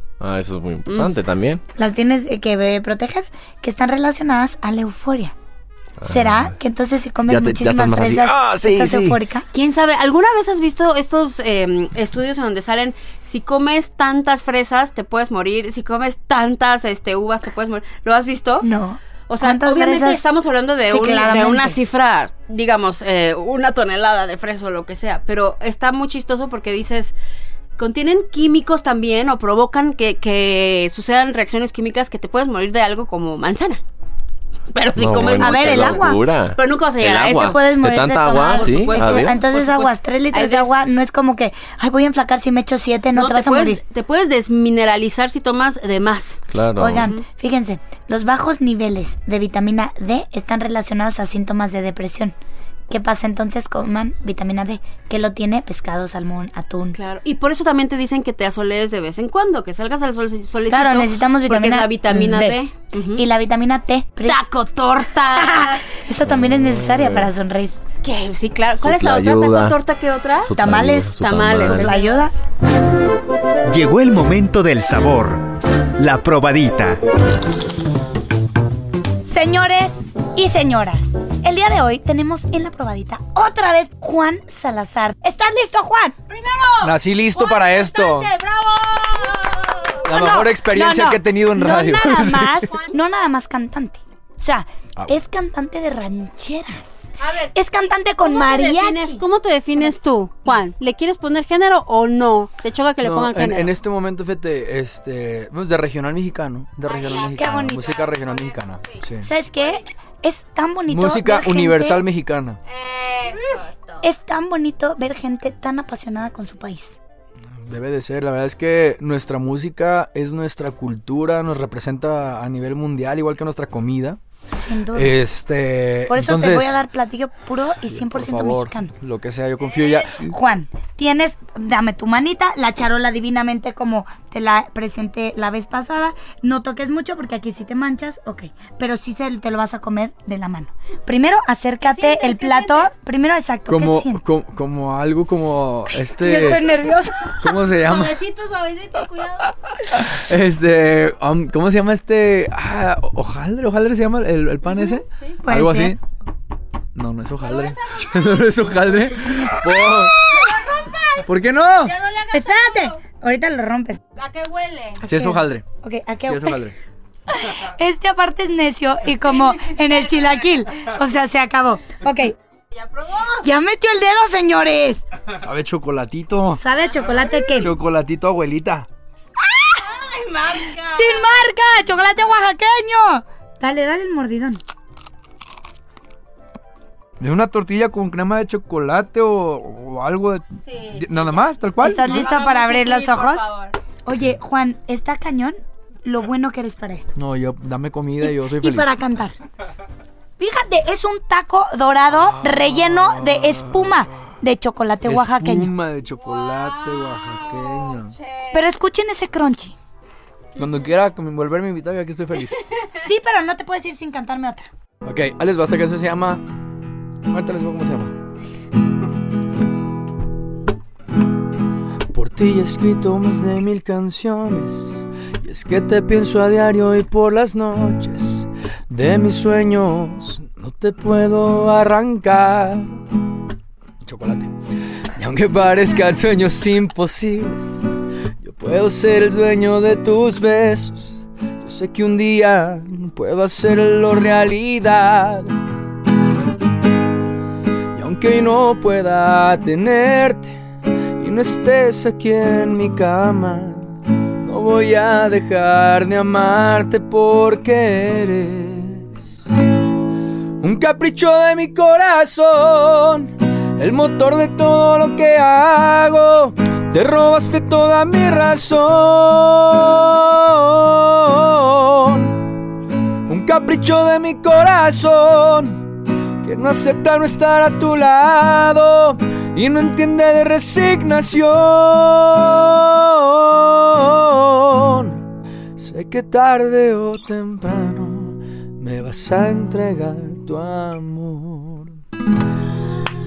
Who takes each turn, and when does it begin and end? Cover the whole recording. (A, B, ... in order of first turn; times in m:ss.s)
0:00.2-0:01.6 A
0:00.9-0:01.1 B
0:01.7-0:05.3 C
0:06.0-0:06.5 A
0:06.1-0:09.5 C
0:07.2-0:09.2 A
0:09.5-0:18.7 B
0:18.6-0:20.2 C
0:19.3-0:27.1 B
0:20.9-0:21.8 C
0:27.8-0:33.8 B
0:34.7-0:37.6 B
0:35.0-0:39.3 A
0:35.3-0:36.2 C
0:37.3-0:43.8 C
0:38.4-0:40.7 B
0:43.1-0:46.4 B
0:46.5-0:47.1 A
0:46.8-0:52.3 C
0:47.0-0:47.2 B
0:52.9-0:57.0 C
0:56.9-1:03.2 B
1:00.7-1:02.6 C
1:03.1-1:04.4 C
1:04.2-1:05.8 B
1:05.2-1:07.7 C
1:06.2-1:07.3 A
1:08.0-1:10.5 B
1:08.8-1:09.8 A
1:10.4-1:11.9 A
1:10.6-1:12.3 C
1:11.2-1:12.2 B
1:13.7-1:17.0 D
1:19.2-1:26.2 C
1:26.3-1:30.1 B
1:26.8-1:28.3 E
1:30.0-1:39.2 C
1:30.0-1:32.6 E
1:32.7-1:33.0 B
1:37.2-1:37.6 B
1:38.2-1:43.7 B
1:43.0-1:49.3 E
1:46.8-1:49.0 B
1:47.3-1:47.9 C
1:49.2-1:52.0 C
1:49.6-1:49.8 B
1:50.9-1:52.6 E
1:52.6-1:54.0 B
1:54.0-1:57.0 C
1:57.6-2:04.2 E
2:04.5-2:05.2 C
2:04.9-2:06.8 E
2:06.1-2:08.9 C
2:07.8-2:10.3 E
2:10.0-2:24.2 C
2:21.8-2:22.9 B
2:23.7-2:26.8 E
2:25.9-2:27.6 C
2:27.4-2:28.2 E
2:27.8-2:29.5 B
2:29.9-2:36.0 E
2:35.4-2:36.0 C
2:36.9-2:40.2 E
2:37.4-2:38.4 B
2:40.3-2:43.0 B
2:41.2-2:41.9 E
2:42.3-2:44.0 C
2:44.2-2:45.0 B
2:45.0-2:46.6 C
2:45.0-2:45.6 E
2:46.3-2:46.7 E
2:47.3-2:52.3 C
2:49.3-2:50.3 B
2:52.7-2:53.4 B
2:53.4-2:55.0 C
2:55.4-2:56.6 E
2:56.5-2:57.7 C
2:57.6-2:58.9 E
2:59.7-3:01.3 B
3:00.8-3:04.6 C
3:07.2-3:12.3 E
3:10.6-3:13.7 B
3:11.8-3:13.4 C
3:14.0-3:17.2 C
3:17.1-3:18.9 E
3:18.2-3:19.4 C
3:20.4-3:25.7 C
3:22.1-3:24.3 E
3:25.0-3:28.1 E
3:26.2-3:28.6 B
3:28.5-3:29.7 C
3:30.6-3:30.9 B
3:30.6-3:32.6 E
3:33.0-3:34.7 C
3:35.0-3:36.4 E
3:37.3-3:38.1 E
3:42.1-3:53.0 E
3:54.0-3:54.5 E
3:55.2-3:57.8 E
3:58.4-4:05.5 E
4:07.9-4:10.6 E
4:11.2-4:19.2 E
4:20.6-4:32.4 E
4:33.3-4:35.8 E
4:36.4-4:45.2 E
4:45.8-4:51.9 E